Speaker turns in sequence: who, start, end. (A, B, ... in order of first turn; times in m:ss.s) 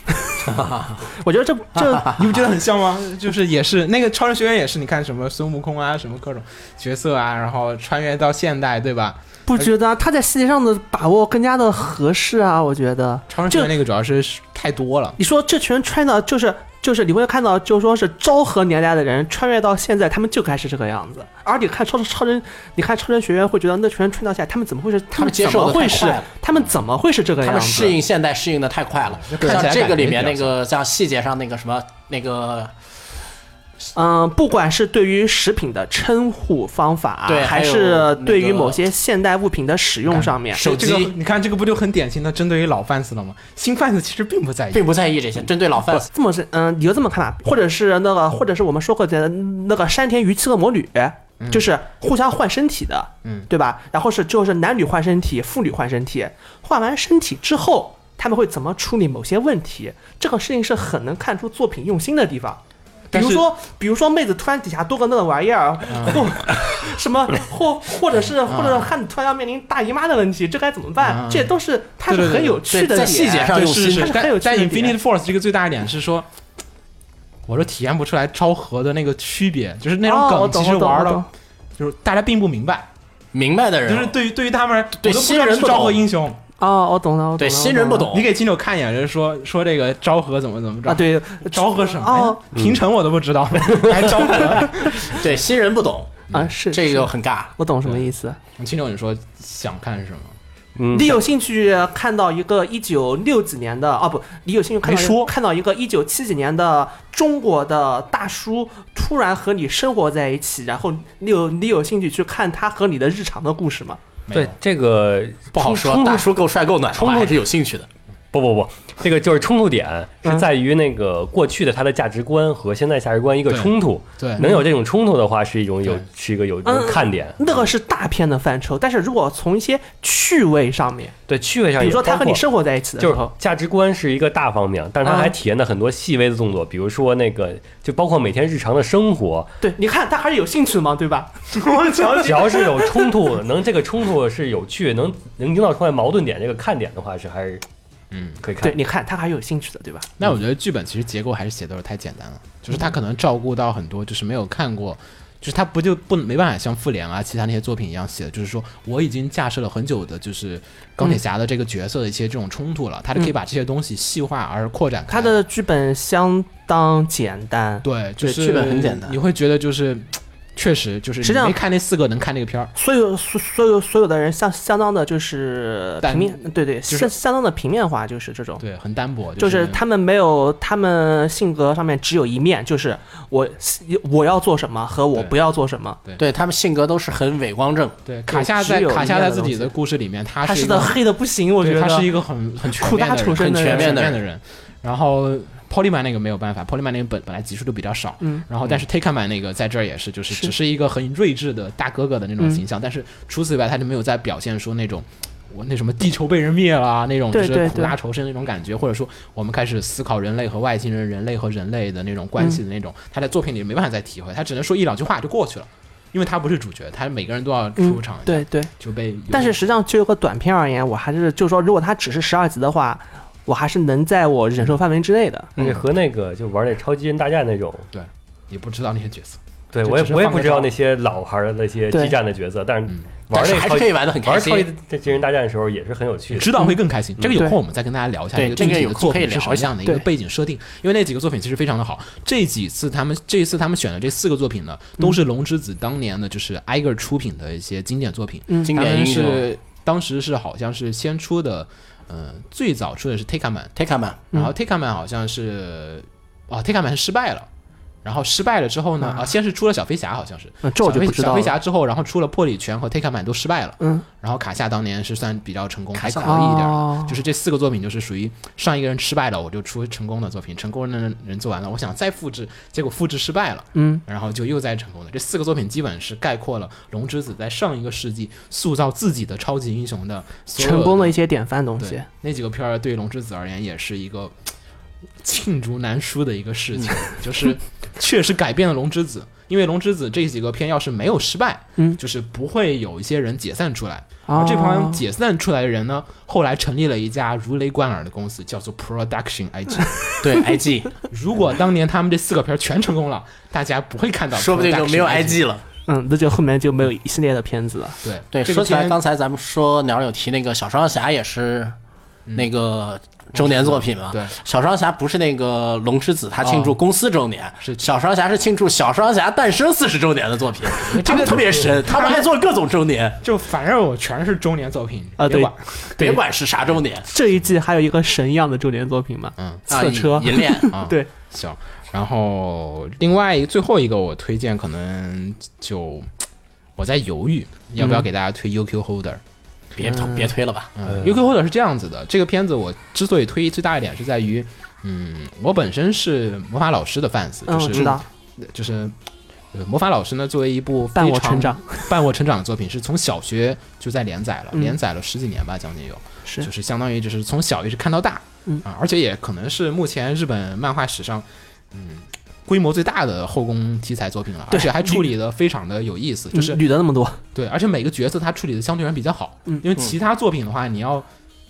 0:00.4-0:01.1 A
0:01.1-0:02.3 B
0:01.8-0:02.2 A
0:02.0-0:09.7 C
0:09.5-0:13.7 B
0:13.3-0:15.2 C
0:15.2-0:28.0 B
0:25.2-0:26.3 A
0:27.4-0:32.7 A
0:29.1-0:30.6 C
0:34.0-0:40.6 B
0:37.3-0:38.8 A
0:40.2-0:41.1 A
0:40.6-0:44.9 C
0:44.7-0:46.1 A
0:46.1-1:15.0 B
0:51.4-0:51.7 C
1:03.1-1:03.5 C
1:05.9-1:06.3 C
1:08.4-1:08.9 C
1:11.0-1:11.5 C
1:12.1-1:12.7 C
1:12.7-1:14.2 A
1:13.4-1:16.3 C
1:17.5-1:21.3 C
1:20.0-1:21.3 B
1:21.8-1:22.9 C
1:23.3-1:24.1 A
1:23.8-1:26.4 C
1:25.0-1:26.0 A
1:26.6-1:28.1 B
1:27.4-1:28.3 A
1:28.1-1:35.2 C
1:30.9-1:32.4 B
1:33.6-1:34.1 D
1:35.0-1:37.5 A
1:36.3-1:38.4 B
1:38.6-1:40.4 C
1:40.8-1:41.2 D
1:40.9-1:54.0 B
1:44.8-1:45.3 C
1:54.3-1:54.6 C
1:54.3-1:56.3 D
1:55.5-1:57.9 A
1:56.9-1:57.4 D
1:58.3-2:07.4 D
2:03.5-2:04.5 C
2:04.4-2:04.7 B
2:06.6-2:11.2 B
2:11.3-2:12.4 D
2:11.8-2:13.3 B
2:13.0-2:19.5 D
2:15.0-2:15.3 B
2:19.6-2:22.9 B
2:22.1-2:27.6 D
2:28.1-2:28.4 C
2:28.4-2:28.8 D
2:28.6-2:30.1 B
2:30.2-2:45.4 C
2:45.1-2:48.4 B
2:47.8-2:52.7 C
2:48.3-2:49.2 A
2:51.2-2:51.6 B
2:52.8-2:58.6 B
2:56.0-2:57.1 C
2:58.6-2:59.8 C
2:59.4-3:06.0 B
3:06.2-3:08.0 A
3:08.1-3:11.0 C
3:08.3-3:09.7 B
3:10.4-3:12.1 B
3:11.6-3:39.6 C
3:12.6-3:14.0 B
3:13.4-3:14.2 A
3:27.3-3:28.0 B
3:37.8-3:38.7 B
3:39.3-3:45.5 B
3:45.6-3:47.9 D
3:47.9-3:50.7 C
3:49.7-3:56.6 D
3:53.3-3:54.7 A
3:56.3-4:13.7 C
3:58.4-4:00.0 A
4:08.5-4:08.7 B
4:08.7-4:09.5 A
4:13.8-4:14.2 A
4:14.3-4:17.5 C
4:18.0-4:41.2 C
4:19.0-4:19.3 B
4:20.6-4:21.6 B
4:26.0-4:26.4 A
4:26.2-4:27.2 B
4:33.8-4:34.0 B
4:40.6-4:42.1 B
4:41.8-4:44.4 C
4:45.2-5:00.0 C
4:54.3-4:55.0 B
5:00.2-5:01.0 A
5:01.1-5:05.4 C
5:04.3-5:05.6 A
5:05.9-5:08.0 B
5:08.0-5:09.0 C
5:08.3-5:11.8 A
5:12.4-5:23.2 A
5:13.3-5:14.4 C
5:16.4-5:16.8 C
5:20.8-5:22.3 C
5:23.2-5:26.2 C
5:25.2-5:26.2 B
5:26.0-5:27.1 A
5:27.1-5:31.1 B
5:29.4-5:29.6 C
5:29.7-5:30.7 A
5:30.7-5:36.1 C
5:36.8-5:39.2 C
5:37.8-5:38.0 B
5:39.8-5:40.7 A
5:39.8-5:40.3 B
5:40.8-5:49.0 C
5:40.9-5:41.1 D
5:47.5-5:48.0 B
5:49.5-6:06.6 C
5:51.0-5:51.9 B
6:04.5-6:05.1 B
6:06.3-6:07.2 B
6:07.4-6:11.1 C